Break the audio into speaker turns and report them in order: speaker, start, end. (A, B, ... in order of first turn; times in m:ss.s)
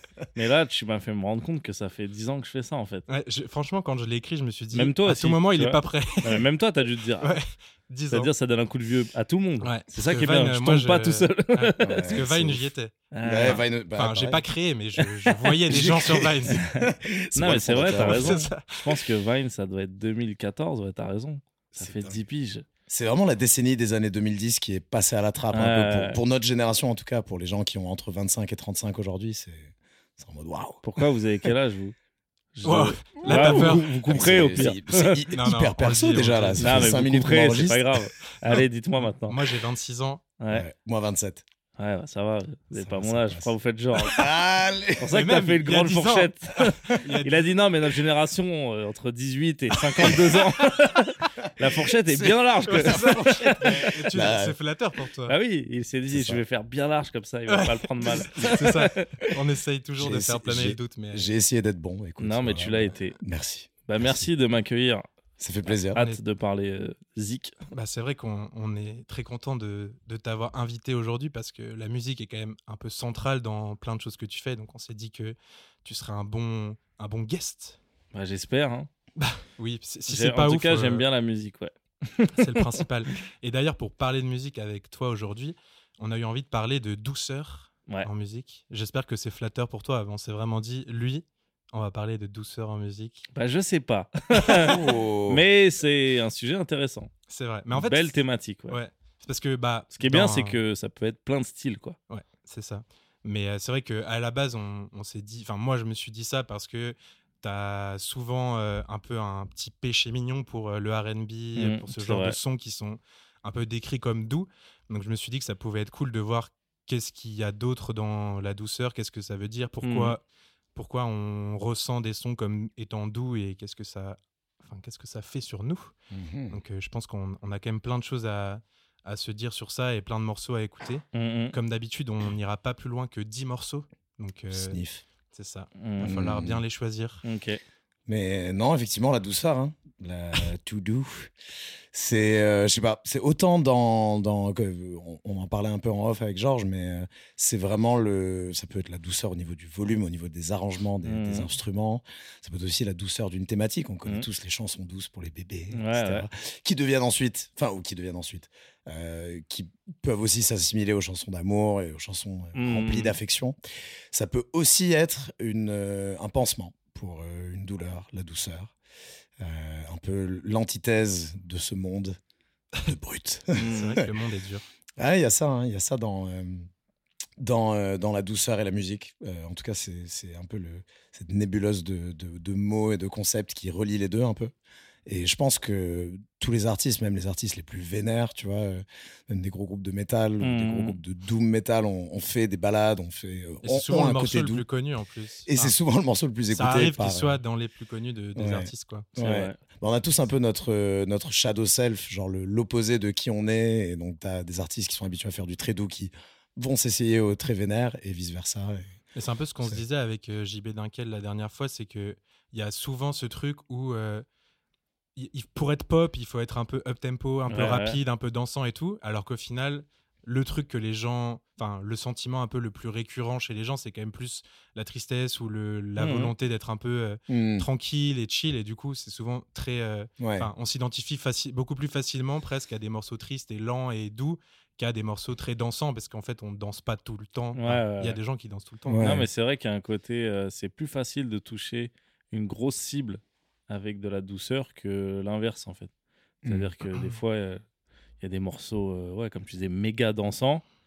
0:00.4-0:03.1 A
0:03.1-0:06.4 B
0:04.7-0:07.4 A
0:07.2-0:08.3 B
0:08.1-0:12.2 A
0:09.6-0:12.9 B
0:11.8-0:12.7 C
0:13.1-0:13.6 A
0:13.2-0:14.4 C
0:13.5-0:16.6 B
0:15.7-0:18.4 C
0:16.7-0:22.6 A
0:18.0-0:18.9 B
0:21.8-0:22.2 C
0:22.9-0:30.8 C
0:25.5-0:26.2 A
0:30.8-0:32.0 A
0:32.6-0:35.2 A
0:32.6-0:33.8 B
0:33.2-0:38.1 C
0:35.3-0:36.9 B
0:36.6-0:39.4 A
0:39.2-0:40.2 B
0:40.4-0:40.7 A
0:40.5-0:41.4 C
0:41.8-0:44.3 A
0:42.8-0:45.1 C
0:45.0-0:54.3 A
0:45.1-0:47.5 B
0:50.0-0:50.4 B
0:52.6-0:55.3 B
0:54.1-0:54.6 C
0:55.3-0:59.0 A
0:56.1-0:56.4 C
0:57.5-1:01.3 B
1:00.0-1:04.3 C
1:02.2-1:03.2 A
1:03.9-1:05.1 A
1:05.4-1:06.0 C
1:05.9-1:07.6 A
1:07.7-1:17.8 B
1:18.1-1:18.9 A
1:19.2-1:21.0 B
1:20.1-1:22.6 A
1:22.3-1:33.3 B
1:33.3-1:37.1 A
1:34.5-1:35.4 C
1:37.3-1:38.1 B
1:37.7-1:38.8 A
1:38.7-1:40.6 B
1:40.0-1:42.0 A
1:42.1-2:00.2 B
1:51.6-1:52.4 A
1:59.8-2:00.2 A
2:00.8-2:05.9 B
2:06.1-2:06.6 C
2:06.5-2:14.8 B
2:11.1-2:11.6 A
2:14.5-2:15.0 C
2:15.3-2:17.2 B
2:15.8-2:16.2 A
2:16.0-2:16.6 C
2:17.2-2:17.6 A
2:18.1-2:21.3 C
2:21.9-2:43.6 C
2:31.0-2:31.5 A
2:35.7-2:36.3 A
2:42.6-2:43.2 A
2:44.1-2:48.7 C
2:49.4-2:52.2 C
2:52.8-2:54.1 C
2:53.6-2:54.6 B
2:53.6-2:54.0 A
2:55.0-2:56.7 C
2:57.4-3:04.5 C
3:05.1-3:14.7 C
3:10.4-3:11.0 A
3:13.6-3:15.8 B
3:15.5-3:17.4 C
3:16.5-3:19.1 B
3:18.4-3:28.9 C
3:19.2-3:19.6 A
3:29.2-3:34.2 B
3:35.2-3:59.1 B
3:37.5-3:38.0 A
3:46.0-3:46.3 A
3:47.3-3:47.7 C
3:50.2-3:50.5 C
3:57.6-3:58.2 A
3:58.9-3:59.3 C
3:59.0-4:05.9 A
4:06.4-4:07.0 C
4:06.4-4:07.6 A
4:08.2-4:10.6 A